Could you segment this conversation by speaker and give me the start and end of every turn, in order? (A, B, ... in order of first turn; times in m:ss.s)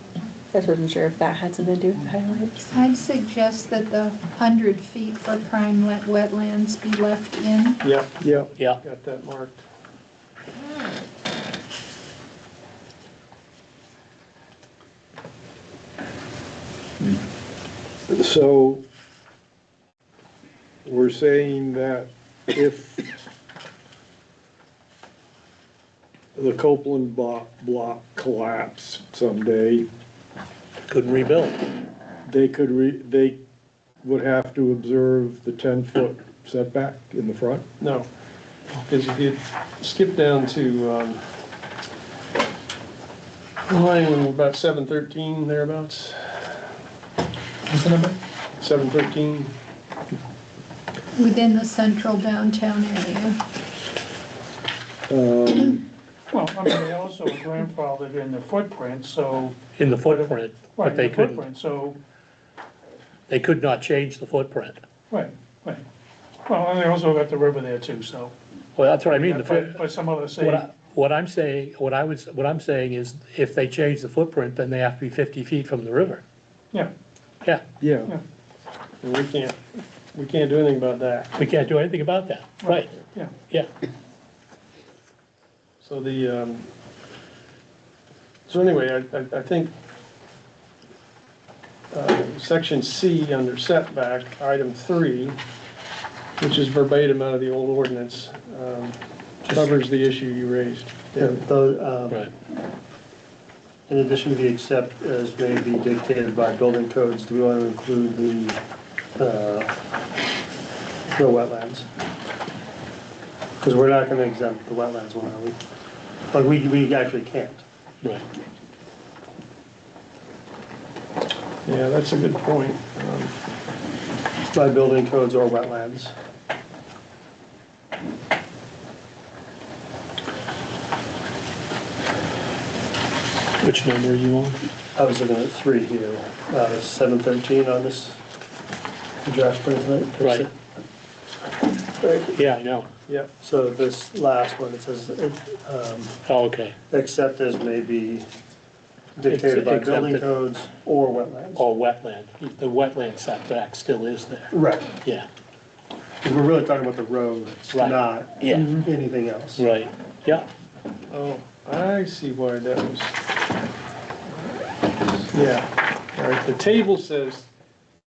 0:00.5-0:02.7 A
0:02.7-0:07.8 B
0:07.8-0:09.6 C
0:08.2-0:08.5 D
0:18.1-0:18.8 D
0:20.8-0:23.1 D
0:26.4-0:29.9 D
0:30.9-0:31.6 E
0:32.2-0:33.4 D
0:34.0-0:37.6 D
0:37.8-0:38.1 C
0:38.7-0:41.2 C
0:43.7-0:46.7 C
0:47.8-0:48.1 D
0:48.6-0:49.5 C
0:51.1-0:53.4 B
0:55.1-0:55.8 D
0:56.3-1:02.0 F
0:59.8-1:01.4 E
1:03.3-1:04.8 E
1:05.1-1:05.8 F
1:06.5-1:08.3 F
1:08.8-1:16.2 E
1:09.0-1:10.7 F
1:17.8-1:18.1 D
1:19.0-1:21.3 C
1:21.3-1:22.9 E
1:22.6-1:23.3 F
1:25.8-1:26.7 C
1:28.5-1:29.7 C
1:31.9-1:35.4 C
1:36.4-1:41.4 C
1:41.2-1:42.2 G
1:43.9-1:48.6 G
1:49.2-1:49.7 G
1:51.1-1:51.9 G
1:53.6-1:55.6 G
1:56.3-1:57.6 G
2:01.6-2:03.4 C
2:04.5-2:06.1 G
2:13.6-2:14.6 E
2:14.9-2:18.2 G
2:19.2-2:20.5 G
2:20.2-2:20.5 E
2:22.0-2:22.3 G
2:22.3-2:22.9 E
2:23.4-2:26.2 G
2:26.2-2:26.8 E
2:26.9-2:28.3 G
2:29.2-2:31.7 G
2:29.2-2:30.3 E
2:31.5-2:34.5 E
2:34.5-2:34.9 G
2:36.2-2:39.6 G
2:37.7-2:38.8 E
2:39.6-2:40.5 E
2:41.1-2:43.2 C
2:45.2-2:47.5 C